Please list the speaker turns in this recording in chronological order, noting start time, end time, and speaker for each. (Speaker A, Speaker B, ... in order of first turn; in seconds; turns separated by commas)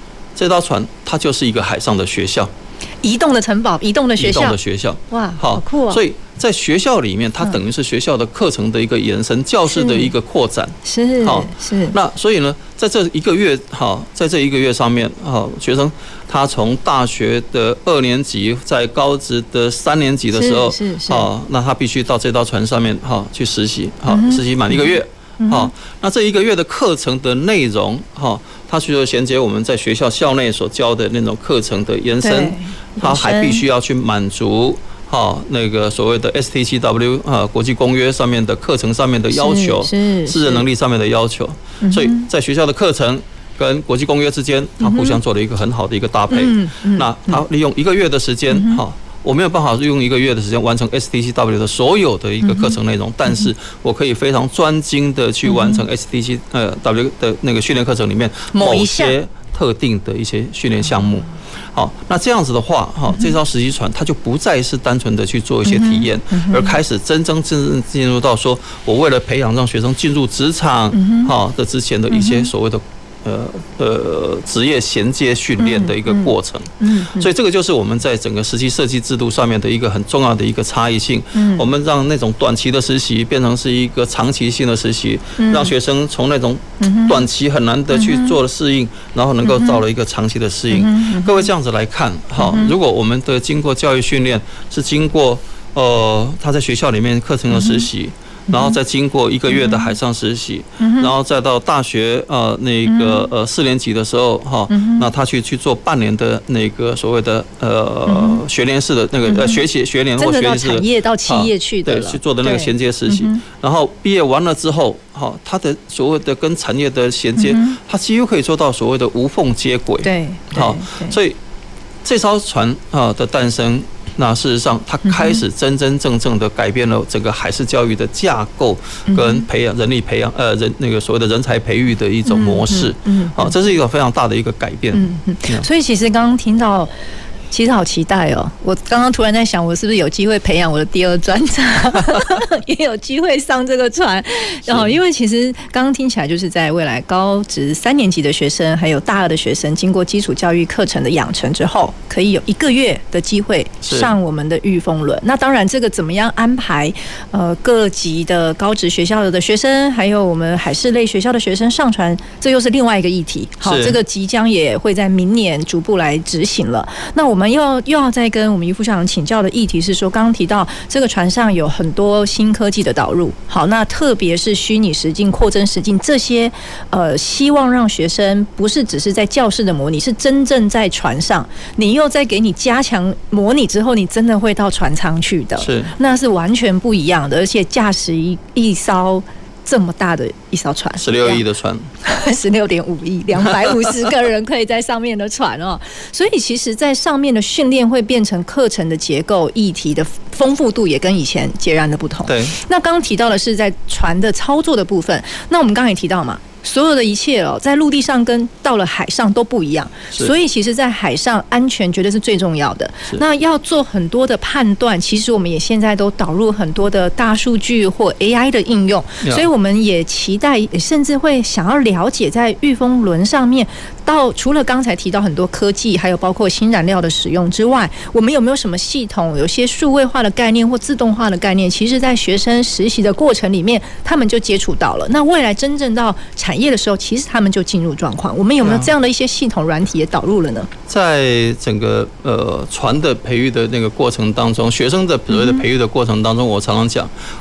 Speaker A: 0.3-2.5, Speaker B: 3.0-4.6, Speaker A: 4.2-121.4, Speaker B: 5.1-6.0, Speaker B: 9.7-10.1, Speaker B: 10.8-11.9, Speaker B: 20.3-21.3, Speaker B: 24.1-25.7, Speaker B: 32.2-33.6, Speaker B: 39.3-40.6, Speaker B: 41.8-42.3, Speaker B: 44.8-45.2, Speaker B: 46.3-47.4, Speaker B: 48.5-48.8, Speaker B: 52.4-52.7, Speaker B: 55.4-55.8, Speaker B: 58.5-59.1, Speaker B: 65.7-66.7, Speaker B: 70.9-71.3, Speaker B: 72.1-72.5, Speaker B: 75.6-77.3, Speaker B: 81.3-81.7, Speaker B: 85.4-85.7, Speaker B: 86.8-87.2, Speaker B: 87.9-88.3, Speaker B: 89.4-89.8, Speaker B: 90.7-91.4, Speaker B: 92.4-92.7, Speaker B: 97.5-97.8, Speaker B: 98.5-98.8, Speaker B: 99.5-99.9, Speaker B: 100.8-101.1, Speaker B: 102.9-103.3, Speaker B: 104.7-105.1, Speaker B: 108.1-108.4, Speaker B: 109.3-109.6, Speaker B: 110.2-113.4, Speaker B: 117.4-117.8, Speaker B: 120.0-121.2, Speaker A: 122.0-135.7, Speaker B: 125.1-125.4, Speaker B: 129.1-129.4, Speaker B: 132.2-133.5, Speaker B: 134.9-136.9, Speaker B: 137.5-191.4, Speaker A: 144.7-145.0, Speaker A: 153.8-154.1, Speaker A: 163.6-164.0, Speaker A: 185.6-185.9, Speaker A: 191.0-191.9, Speaker B: 192.0-240.7, Speaker A: 193.5-193.9, Speaker A: 202.2-202.5, Speaker A: 238.6-238.9, Speaker A: 240.9-247.1, Speaker B: 245.3-245.6